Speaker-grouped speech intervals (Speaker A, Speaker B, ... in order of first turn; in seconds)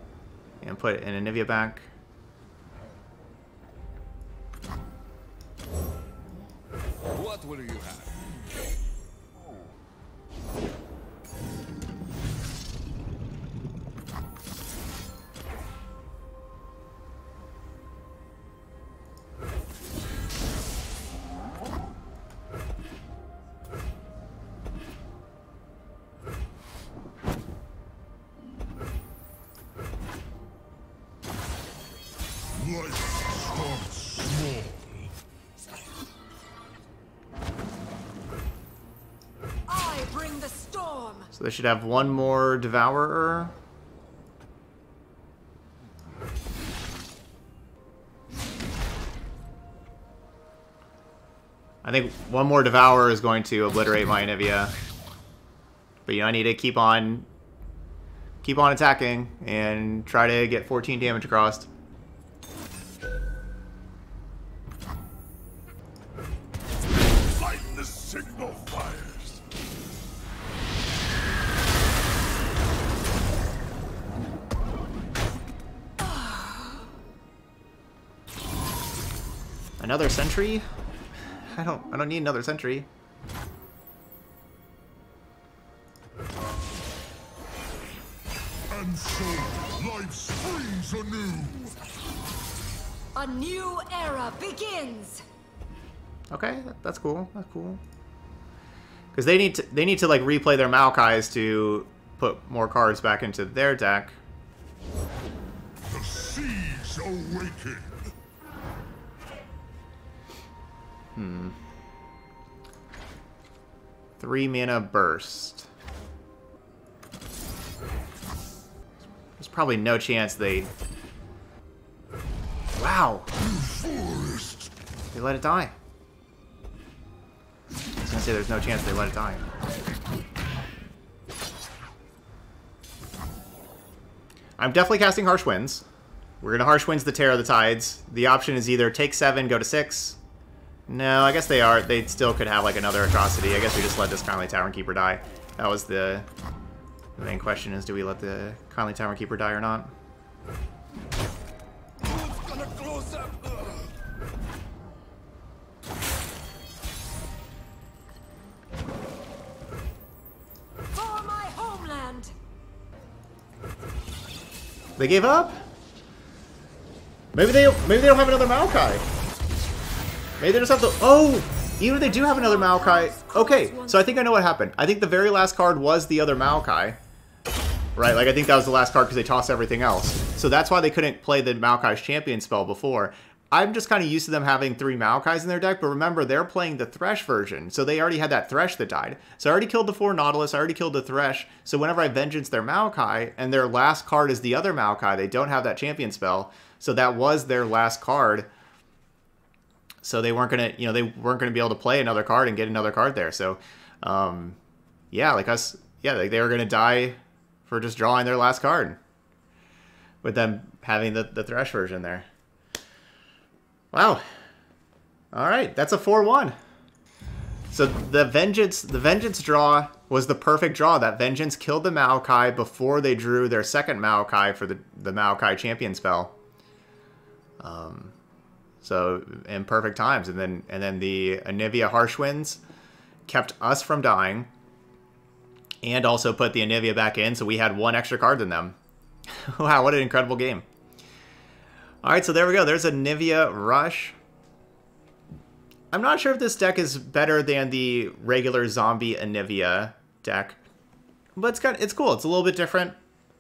Speaker A: 0.6-1.9, 41.3-43.5, 51.8-54.7, 56.0-57.2, 58.4-61.7, 79.8-80.6, 81.5-82.9, 96.3-97.8, 99.1-104.2, 111.2-111.5, 114.2-115.7, 119.4-120.7, 122.8-123.3, 125.1-125.7, 128.0-129.4, 134.6-135.8, 136.4-140.2, 140.9-146.3, 147.2-149.9, 165.0-165.6, 167.3-169.0, 170.4-177.0, 177.9-198.5, 200.0-204.6, 205.1-209.0, 210.2-212.3, 213.9-214.2, 215.3-216.6, 217.7-226.3, 227.6-228.1, 228.8-232.6, 233.3-234.5, 235.8-238.8, 239.4-240.6, 242.0-244.2, 245.9-250.6, 251.4-252.9
Speaker B: 7.1-8.2, 152.0-153.9
Speaker C: 32.6-35.1, 67.3-69.4, 88.7-91.8, 105.9-108.1, 123.4-124.7
Speaker D: 39.7-41.3, 93.1-95.2, 160.9-162.3, 171.9-174.3